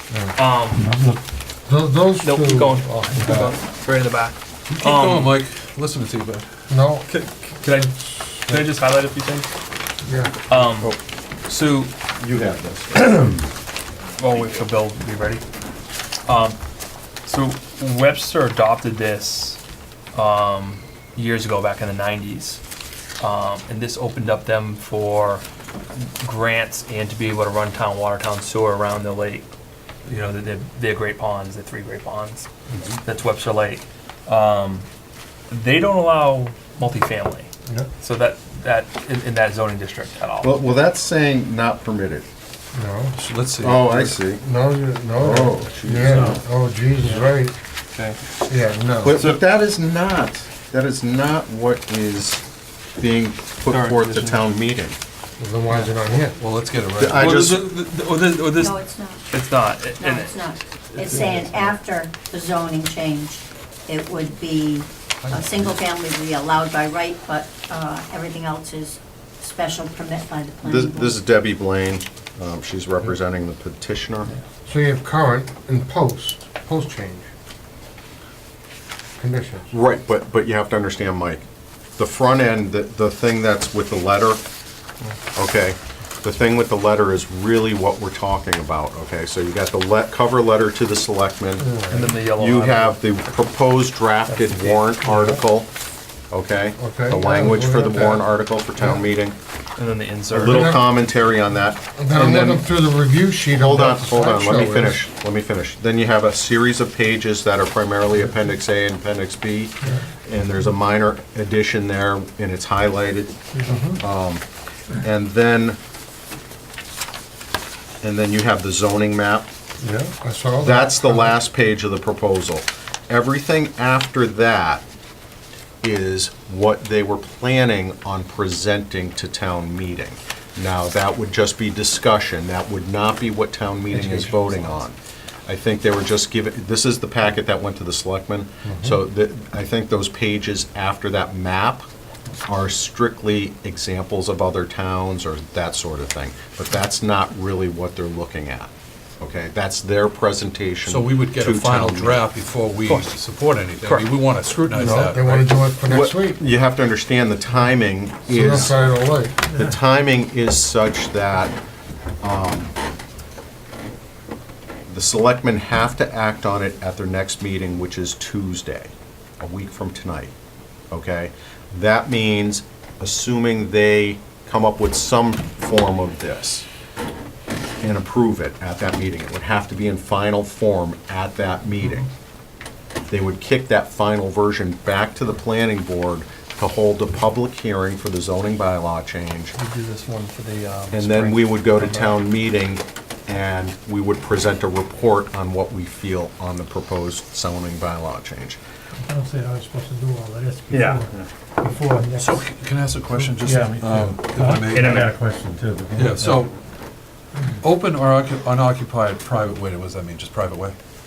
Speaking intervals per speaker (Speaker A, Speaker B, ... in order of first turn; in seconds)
Speaker A: 0.3-0.9, 2.2-5.3, 7.1-9.5, 10.5-10.9, 11.4-11.9, 14.2-15.4, 16.2-16.6, 17.2-19.6, 20.1-22.6, 23.2-29.5, 30.1-32.5, 33.0-34.9, 35.5-40.5, 47.0-47.3, 47.9-48.2, 53.7-54.5, 55.7-56.2, 57.1-61.8, 91.9-93.5, 94.3-94.9, 99.8-100.7, 152.9-153.1, 153.8-154.1, 189.6-192.1, 204.7-205.0
Speaker B: 0.7-1.2, 199.1-202.4, 203.4-206.3
Speaker C: 1.7-3.5, 6.7-7.1, 8.2-8.7, 10.0-10.3, 42.7-43.1, 44.4-47.5, 48.5-49.2, 55.4-56.3, 74.6-77.3, 79.2-79.7, 91.6-92.1, 95.0-95.4, 96.8-99.1, 100.4-101.0, 102.0-105.0, 113.6-114.0, 119.8-121.3, 138.6-139.0, 154.7-156.4, 158.3-159.3
Speaker D: 4.7-6.5, 43.1-44.1, 56.4-57.4, 150.8-155.6, 202.1-205.1, 205.9-206.5, 207.6-210.7
Speaker E: 10.6-11.0, 12.2-13.4, 32.7-33.0, 40.4-42.2, 43.6-44.4, 45.2-46.4, 49.0-52.4, 53.0-55.0, 57.0-57.7, 70.6-74.3, 79.7-81.4, 82.0-84.4, 85.3-91.7, 92.3-95.7, 96.3-99.4, 100.3-102.7, 103.5-113.4, 114.0-114.4, 115.0-115.8, 118.0-119.5, 120.6-124.8, 125.8-141.9, 142.5-152.2, 155.8-161.6, 162.2-162.7, 164.9-170.3, 170.9-176.7, 177.8-182.1, 183.1-189.5, 190.9-198.6
Speaker F: 58.6-59.2, 60.0-71.2